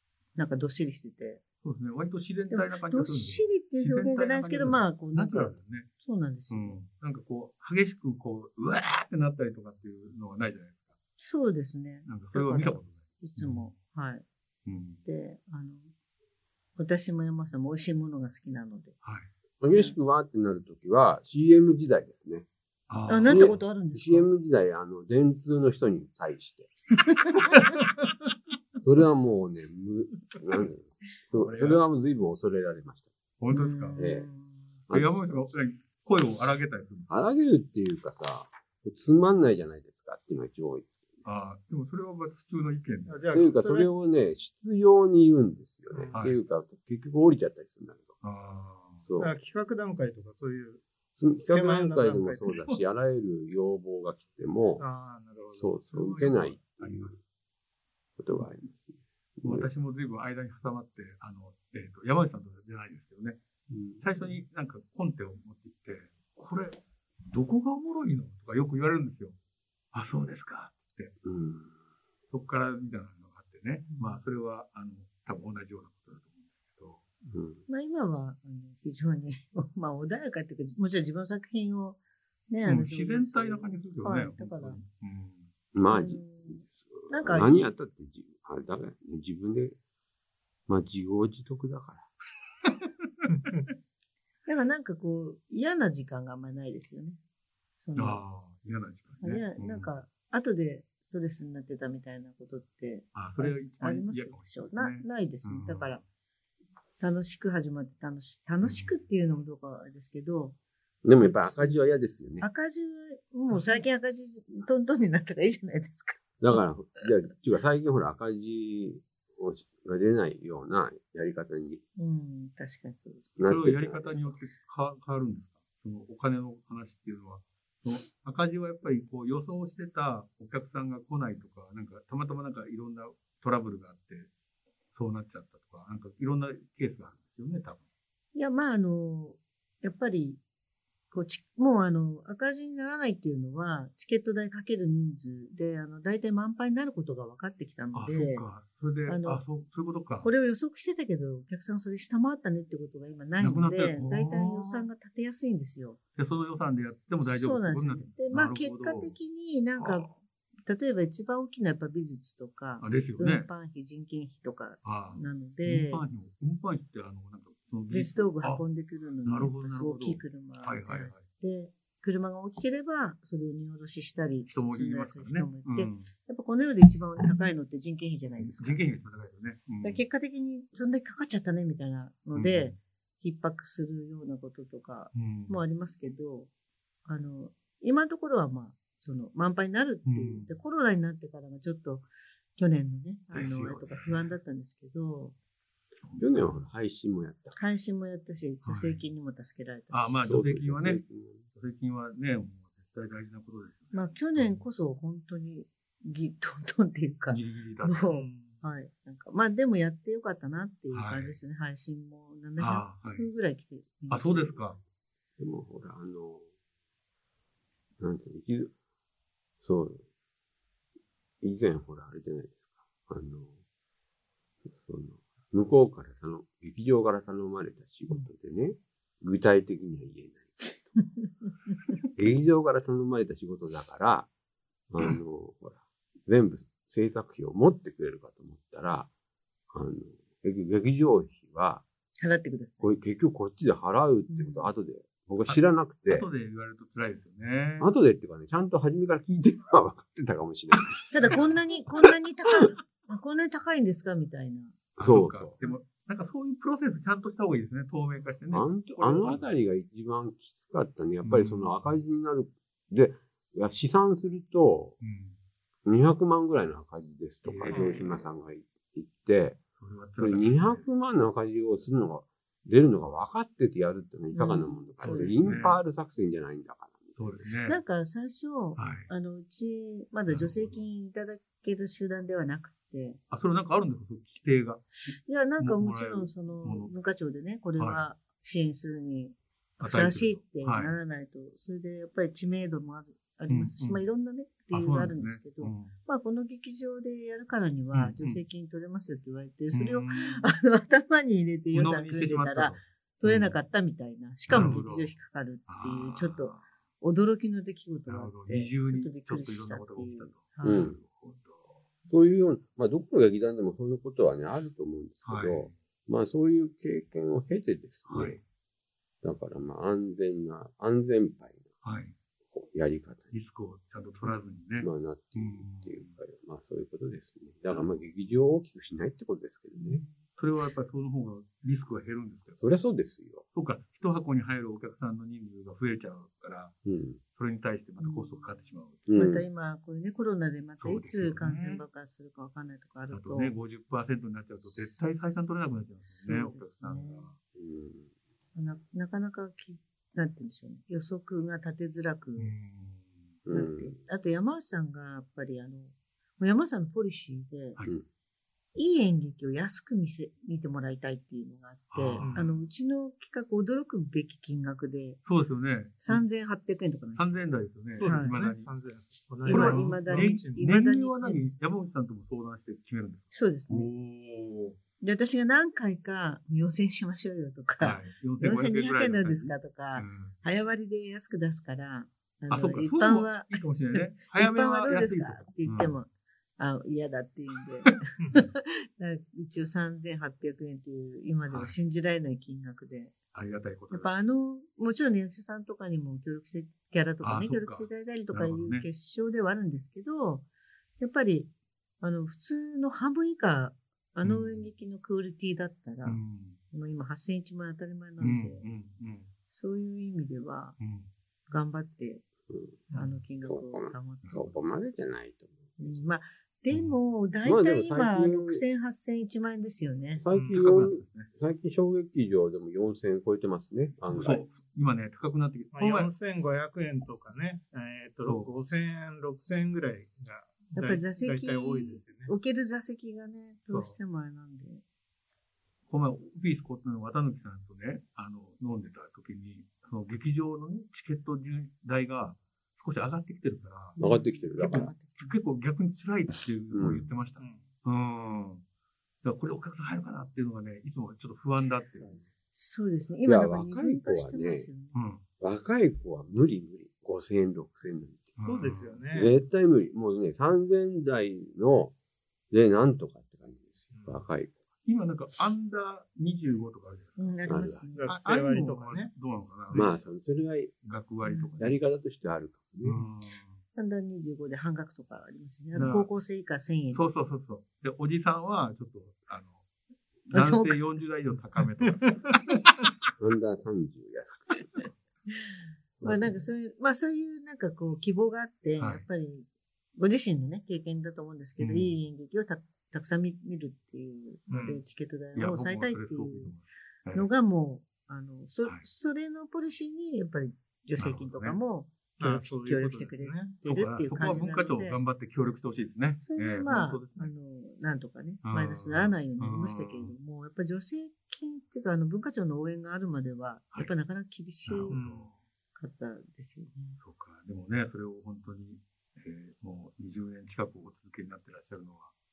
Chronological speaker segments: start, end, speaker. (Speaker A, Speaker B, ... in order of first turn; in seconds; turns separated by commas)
Speaker A: 0.3-1.4, Speaker B: 1.6-5.9, Speaker A: 2.5-6.8, Speaker B: 6.5-10.9, Speaker A: 11.2-14.2, Speaker B: 12.1-13.7, Speaker B: 14.7-15.0, Speaker A: 15.0-15.9, Speaker A: 16.8-19.0, Speaker B: 19.0-19.3, Speaker C: 19.6-22.5, Speaker A: 19.7-19.9, Speaker B: 22.9-23.6, Speaker A: 23.1-24.3, Speaker C: 23.2-26.7, Speaker C: 28.8-33.1, Speaker B: 31.3-31.8, Speaker B: 33.4-34.0, Speaker A: 33.5-34.6, Speaker C: 34.0-34.3, Speaker C: 34.9-35.3, Speaker B: 34.9-37.1, Speaker C: 37.1-41.2, Speaker B: 41.2-43.3, Speaker D: 43.1-43.9, Speaker C: 43.3-48.1, Speaker D: 45.9-46.2, Speaker B: 48.2-49.0, Speaker C: 49.0-49.3, Speaker D: 49.2-50.8, Speaker C: 51.2-54.8, Speaker D: 51.5-52.7, Speaker D: 54.8-56.1, Speaker C: 55.5-57.2, Speaker B: 55.9-57.1, Speaker C: 58.2-59.7, Speaker B: 59.4-63.4, Speaker C: 63.7-64.0, Speaker B: 64.0-69.3, Speaker B: 69.9-71.1, Speaker C: 71.2-71.7, Speaker B: 72.3-77.0, Speaker A: 73.9-74.2, Speaker C: 77.3-77.6, Speaker A: 77.7-82.0, Speaker A: 82.5-84.8, Speaker B: 82.6-85.5, Speaker C: 85.7-89.8, Speaker A: 85.9-87.7, Speaker C: 90.7-92.1, Speaker D: 93.3-93.6, Speaker A: 94.5-97.2, Speaker A: 97.8-98.2, Speaker B: 98.0-99.9, Speaker A: 99.2-106.0, Speaker B: 103.1-106.0, Speaker A: 107.0-110.5, Speaker B: 108.6-108.9, Speaker C: 111.0-112.5, Speaker A: 111.2-111.8, Speaker A: 112.4-116.2, Speaker C: 116.4-121.8, Speaker A: 122.0-123.4, Speaker C: 123.4-124.2, Speaker B: 123.4-134.3, Speaker B: 134.9-137.8, Speaker A: 138.3-140.4, Speaker A: 141.1-148.4, Speaker B: 147.9-150.3, Speaker A: 149.1-149.4, Speaker A: 150.2-156.0, Speaker B: 153.4-154.9, Speaker B: 156.2-159.2, Speaker A: 157.2-160.1, Speaker B: 159.8-160.1, Speaker A: 160.7-166.0, Speaker B: 162.8-163.5, Speaker B: 164.8-168.6, Speaker A: 167.9-178.8, Speaker B: 169.2-171.2, Speaker B: 174.5-176.1, Speaker B: 178.4-180.0, Speaker A: 179.8-186.5, Speaker B: 182.3-182.8, Speaker B: 185.1-185.6, Speaker A: 187.0-192.1, Speaker B: 190.1-190.5, Speaker A: 192.6-195.3, Speaker B: 193.3-194.3, Speaker B: 196.0-196.5, Speaker C: 196.2-197.6, Speaker A: 197.6-200.2, Speaker B: 198.6-199.0, Speaker B: 199.9-201.0, Speaker C: 200.2-201.4, Speaker B: 201.5-204.6, Speaker A: 203.9-214.7, Speaker B: 207.3-208.1, Speaker D: 208.1-208.6, Speaker B: 210.9-211.3, Speaker B: 212.6-213.3, Speaker B: 214.1-214.8, Speaker C: 215.4-216.4, Speaker C: 218.0-218.7, Speaker C: 219.6-220.0, Speaker C: 221.4-223.5, Speaker C: 224.7-230.9, Speaker C: 232.1-234.3, Speaker C: 234.9-239.1, Speaker C: 239.7-241.8, Speaker A: 242.2-242.9, Speaker C: 242.8-246.3, Speaker A: 244.3-244.7, Speaker B: 245.5-247.9, Speaker C: 247.8-251.4, Speaker A: 251.1-254.8, Speaker B: 251.3-251.6, Speaker B: 254.9-259.4, Speaker C: 255.0-255.6, Speaker C: 258.5-264.9, Speaker B: 261.2-262.0, Speaker B: 265.0-265.4, Speaker C: 265.9-269.6, Speaker B: 267.4-268.1, Speaker A: 267.7-268.0, Speaker B: 269.8-270.9, Speaker C: 270.2-277.4, Speaker A: 274.3-275.6, Speaker B: 275.0-275.8, Speaker B: 277.1-277.8, Speaker A: 277.6-283.2, Speaker B: 278.8-279.1, Speaker B: 280.3-280.8, Speaker B: 283.3-286.9, Speaker A: 285.2-310.9, Speaker B: 289.8-290.9, Speaker B: 293.5-294.0, Speaker B: 294.7-295.9, Speaker B: 297.9-298.4, Speaker B: 299.7-300.5, Speaker B: 301.7-303.6, Speaker B: 304.5-305.1, Speaker B: 305.7-306.7, Speaker B: 308.1-311.7, Speaker C: 310.6-311.0, Speaker C: 312.1-318.3, Speaker B: 315.2-315.7, Speaker B: 318.1-318.4, Speaker C: 319.2-321.7, Speaker B: 321.8-322.1, Speaker C: 322.5-323.3, Speaker B: 323.3-326.1, Speaker C: 324.8-330.0, Speaker B: 327.7-328.0, Speaker A: 329.8-330.1, Speaker B: 330.4-332.6, Speaker C: 332.6-333.4, Speaker B: 333.5-336.8, Speaker C: 336.8-337.2, Speaker B: 337.3-339.1, Speaker A: 338.0-343.5, Speaker C: 339.1-339.4, Speaker B: 340.8-341.8, Speaker B: 343.1-347.4, Speaker A: 344.6-345.3, Speaker A: 346.1-347.3, Speaker C: 347.5-348.1, Speaker A: 348.5-352.5, Speaker B: 352.4-353.3, Speaker C: 353.4-354.0, Speaker A: 353.5-357.8, Speaker A: 358.7-365.2, Speaker B: 361.9-362.6, Speaker D: 362.2-362.5, Speaker B: 365.2-366.2, Speaker A: 366.0-367.4, Speaker B: 367.1-368.7, Speaker D: 367.9-370.7, Speaker A: 368.0-368.4, Speaker A: 369.4-371.6, Speaker B: 369.4-374.8, Speaker A: 373.3-373.9, Speaker A: 375.0-393.1, Speaker B: 377.8-380.3, Speaker B: 382.5-385.9, Speaker D: 388.2-388.4, Speaker B: 391.5-391.8, Speaker B: 393.3-394.1, Speaker A: 393.9-400.4, Speaker B: 397.2-398.9, Speaker A: 401.0-406.2, Speaker B: 404.2-404.7, Speaker B: 406.0-406.6, Speaker A: 406.7-408.6, Speaker B: 408.2-409.3, Speaker A: 409.5-410.8, Speaker B: 410.8-411.1, Speaker A: 411.5-412.2, Speaker C: 412.5-412.8, Speaker A: 412.9-414.5, Speaker C: 413.4-416.0, Speaker A: 415.8-420.2, Speaker B: 416.7-416.9, Speaker C: 417.4-418.6, Speaker C: 420.2-424.4, Speaker D: 420.3-420.6, Speaker B: 420.5-421.3, Speaker A: 424.1-424.5, Speaker B: 424.2-426.1, Speaker D: 425.7-432.3, Speaker B: 428.2-428.5, Speaker A: 430.7-434.8, Speaker B: 433.6-433.9, Speaker B: 435.9-444.0, Speaker A: 443.9-445.4, Speaker C: 444.0-444.9, Speaker B: 444.7-448.6, Speaker C: 446.7-447.1, Speaker D: 447.4-447.7, Speaker B: 449.2-452.1, Speaker A: 452.5-454.9, Speaker C: 453.2-454.7, Speaker B: 454.9-455.2, Speaker C: 455.4-458.3, Speaker B: 458.4-459.0, Speaker D: 458.4-459.4, Speaker C: 459.1-461.9, Speaker C: 462.5-464.6, Speaker D: 463.9-464.2, Speaker B: 464.9-470.1, Speaker A: 467.2-468.1, Speaker C: 467.5-467.8, Speaker D: 467.9-469.1, Speaker C: 469.7-470.7, Speaker B: 470.8-471.7, Speaker A: 471.2-471.5, Speaker C: 471.6-473.0, Speaker B: 472.8-473.6, Speaker A: 473.7-477.0, Speaker B: 475.7-476.1, Speaker B: 476.9-479.6, Speaker B: 480.3-482.4, Speaker A: 480.3-480.8, Speaker C: 483.2-484.8, Speaker C: 486.0-486.4, Speaker A: 486.0-496.5, Speaker B: 488.8-489.0, Speaker B: 491.6-492.0, Speaker D: 494.5-494.8, Speaker B: 495.4-497.3, Speaker A: 497.1-505.0, Speaker B: 501.0-501.6, Speaker D: 502.2-503.5, Speaker B: 503.6-507.3, Speaker A: 506.2-515.0, Speaker B: 508.4-510.1, Speaker B: 514.6-515.4, Speaker D: 514.9-515.3, Speaker A: 515.8-517.0, Speaker B: 517.0-522.1